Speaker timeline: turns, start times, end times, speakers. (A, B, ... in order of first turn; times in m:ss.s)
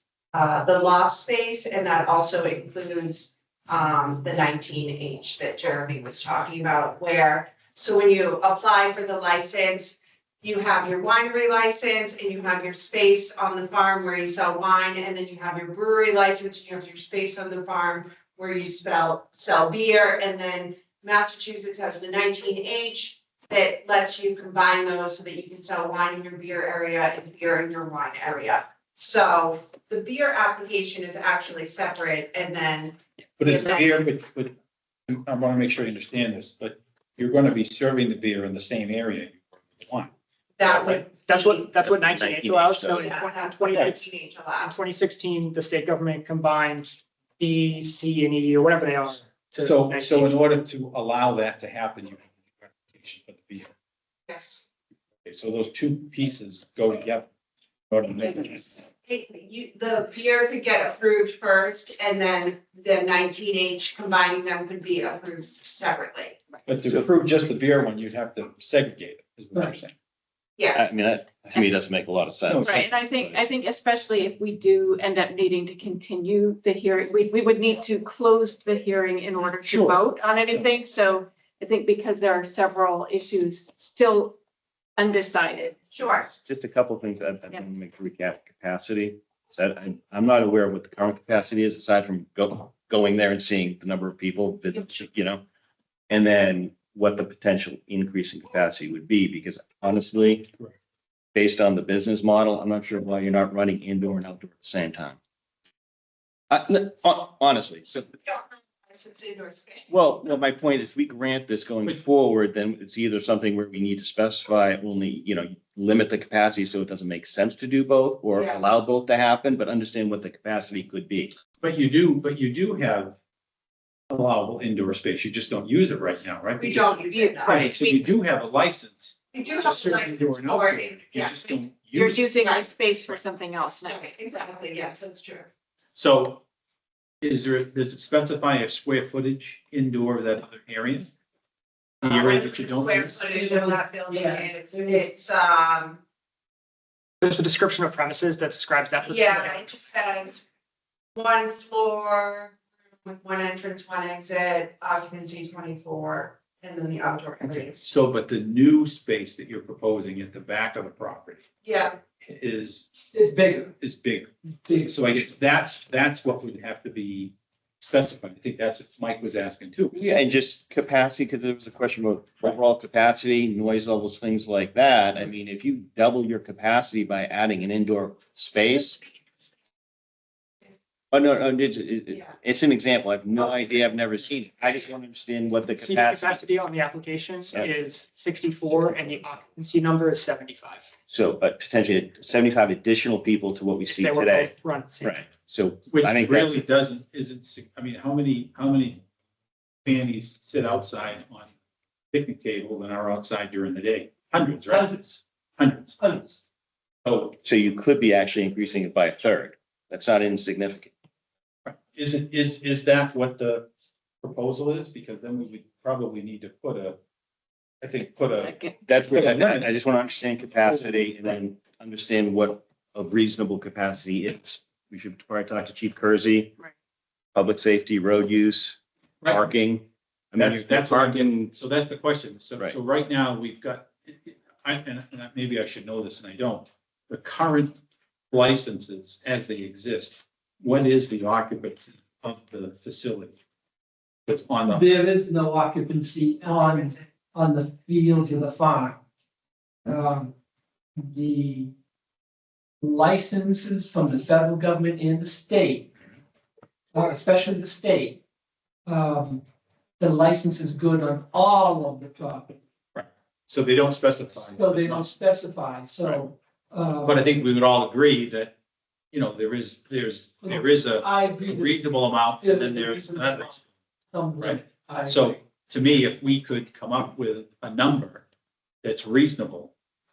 0:00.3-0:34.1 A
0:33.4-0:34.5 B
0:35.1-0:40.1 B
0:40.6-0:41.7 A
0:40.7-0:50.4 C
0:41.8-0:43.1 D
0:43.0-0:44.7 A
0:49.6-0:53.7 B
0:54.3-0:54.6 A
0:55.2-0:57.3 B
0:57.9-0:58.7 B
0:58.2-1:06.4 A
1:06.7-1:09.9 B
1:10.6-1:11.0 A
1:10.7-1:13.4 D
1:12.5-1:12.9 B
1:12.6-1:24.4 E
1:25.0-1:25.8 E
1:25.9-1:26.3 A
1:26.3-1:35.4 D
1:36.1-1:40.5 D
1:41.4-1:45.2 D
1:46.5-1:48.1 D
1:48.2-1:49.9 A
1:49.9-2:01.4 D
1:58.3-1:58.7 A
2:01.6-2:03.2 B
2:04.1-2:12.3 B
2:06.6-2:07.7 A
2:07.1-2:08.1 E
2:09.3-2:11.6 A
2:11.9-2:14.0 E
2:12.4-2:12.7 A
2:12.8-2:13.2 B
2:13.8-2:15.5 A
2:16.0-2:16.4 B
2:17.2-2:21.1 B
2:22.0-2:23.2 B
2:22.0-2:26.0 A
2:23.3-2:25.0 F
2:27.2-2:29.7 C
2:29.0-2:30.4 A
2:31.2-2:37.9 A
2:37.4-2:41.4 B
2:41.6-2:42.0 A
2:42.2-2:42.9 B
2:43.1-2:43.8 F
2:43.8-2:44.3 B
2:44.6-2:45.3 F
2:44.9-2:50.1 B
2:49.9-2:59.0 D
3:01.1-3:06.4 D
3:05.8-3:10.9 C
3:11.1-3:16.6 D
3:13.8-3:15.2 C
3:15.9-3:19.0 B
3:19.8-3:21.5 B
3:22.1-3:26.0 B
3:24.7-3:25.2 F
3:26.0-3:26.4 F
3:27.0-3:27.4 B
3:27.4-3:30.9 D
3:31.7-3:33.7 B
3:34.2-3:37.0 B
3:37.8-3:38.6 B
3:38.4-3:38.8 E
3:38.9-3:46.6 D
3:39.1-3:39.7 B
3:40.7-3:41.0 B
3:47.4-3:51.5 D
3:50.4-3:57.8 B
3:58.3-4:03.3 B
4:04.3-4:04.9 B
4:04.6-4:09.0 F
4:09.9-4:10.3 F
4:11.0-4:11.7 F
4:12.8-4:15.9 F
4:16.9-4:18.2 F
4:18.9-4:19.4 F
4:20.0-4:22.6 F
4:23.0-4:25.1 B
4:24.6-4:27.4 F
4:27.0-4:28.6 B
4:29.1-4:33.6 B
4:30.4-4:33.6 F
4:34.1-4:35.4 F
4:34.4-4:38.2 B
4:38.8-4:39.7 B